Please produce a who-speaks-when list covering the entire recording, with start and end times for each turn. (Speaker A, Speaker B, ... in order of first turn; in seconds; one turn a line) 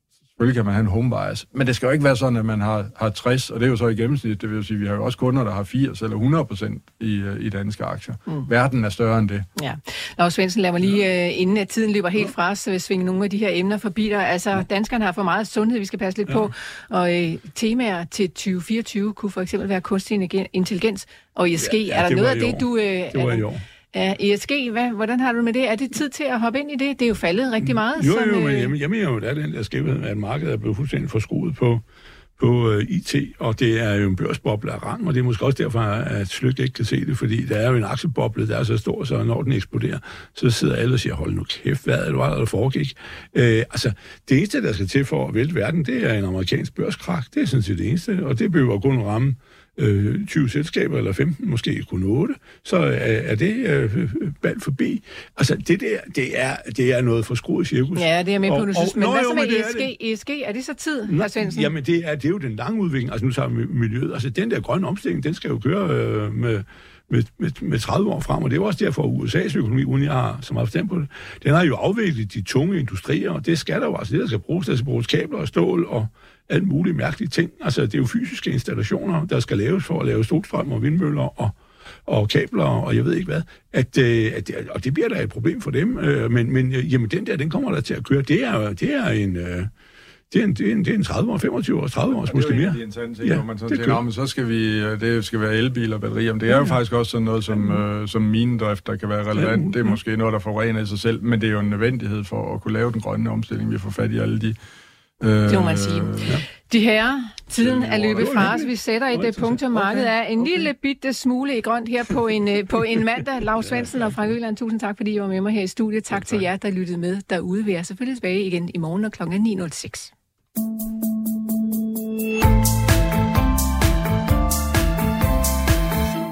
Speaker A: 0.4-9.5
Speaker B: 9.6-28.7
Speaker C: 21.6-23.6
Speaker C: 27.6-31.8
Speaker C: 32.4-59.9
Speaker B: 58.0-61.7
Speaker C: 61.1-81.5
Speaker C: 82.1-89.7
Speaker C: 90.3-94.0
Speaker A: 92.2-104.6
Speaker C: 99.3-100.0
Speaker A: 105.2-106.4
Speaker B: 105.5-120.1
Speaker A: 107.6-108.5
Speaker C: 107.7-110.7
Speaker C: 113.8-114.1